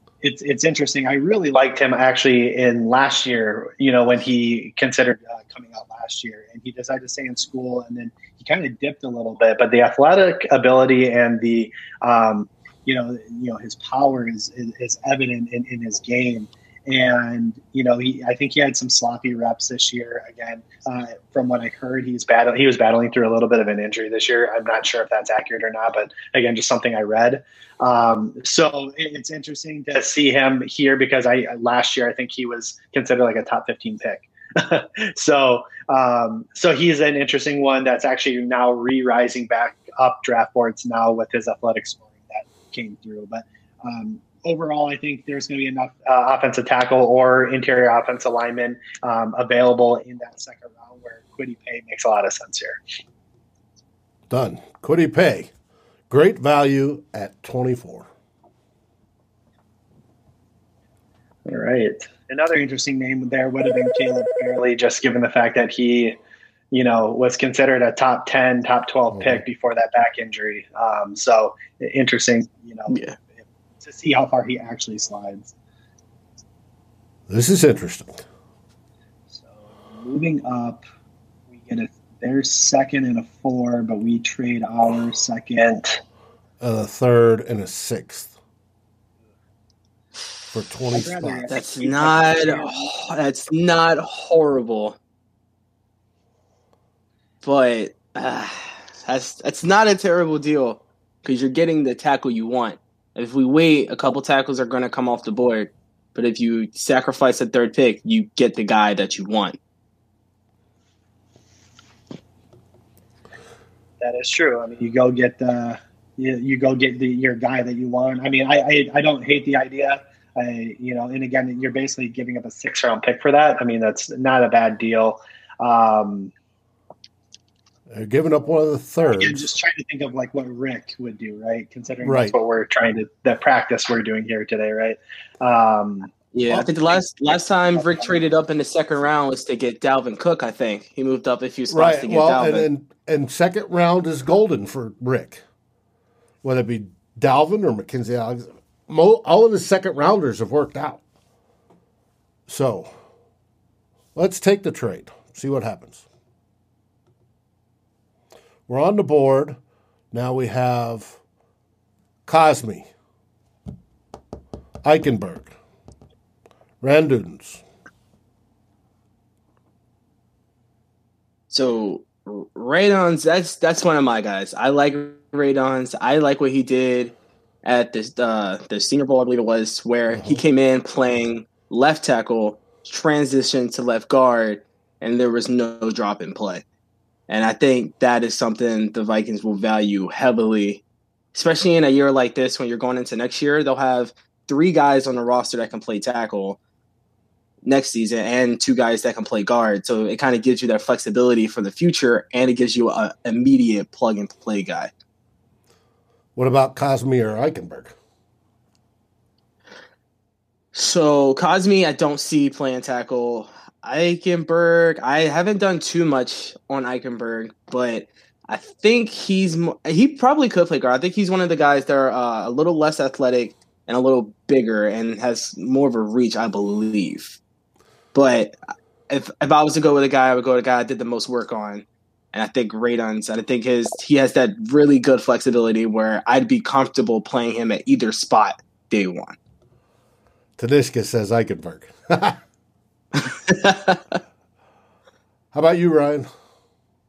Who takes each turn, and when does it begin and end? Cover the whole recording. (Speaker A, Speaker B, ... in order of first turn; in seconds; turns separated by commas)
Speaker A: 0.2-52.8, Speaker B: 54.3-55.5, Speaker B: 56.1-58.1, Speaker A: 61.5-66.2, Speaker A: 66.7-75.5, Speaker B: 69.1-69.4, Speaker C: 72.9-73.2, Speaker B: 77.3-78.2, Speaker A: 79.3-80.8, Speaker A: 81.6-86.0, Speaker B: 86.6-88.3, Speaker B: 90.5-91.5, Speaker A: 90.9-92.9, Speaker C: 91.5-95.0, Speaker C: 97.4-109.6, Speaker A: 114.0-126.3, Speaker B: 127.9-129.5, Speaker A: 129.1-136.1, Speaker B: 132.0-132.3, Speaker C: 136.3-142.7, Speaker A: 137.8-138.1, Speaker B: 141.7-145.4, Speaker B: 146.4-151.0, Speaker B: 152.5-152.9, Speaker B: 154.1-156.0, Speaker B: 158.7-159.6, Speaker B: 160.1-161.2, Speaker B: 162.2-162.9, Speaker B: 164.8-165.5, Speaker B: 166.8-167.6, Speaker C: 171.5-186.6, Speaker B: 180.1-180.4, Speaker C: 187.3-190.8, Speaker C: 191.3-196.6, Speaker C: 197.6-204.9, Speaker B: 206.3-207.9, Speaker C: 210.7-227.4, Speaker C: 228.1-228.6, Speaker C: 229.1-239.3, Speaker B: 240.6-242.4, Speaker C: 243.2-244.2, Speaker B: 245.5-246.3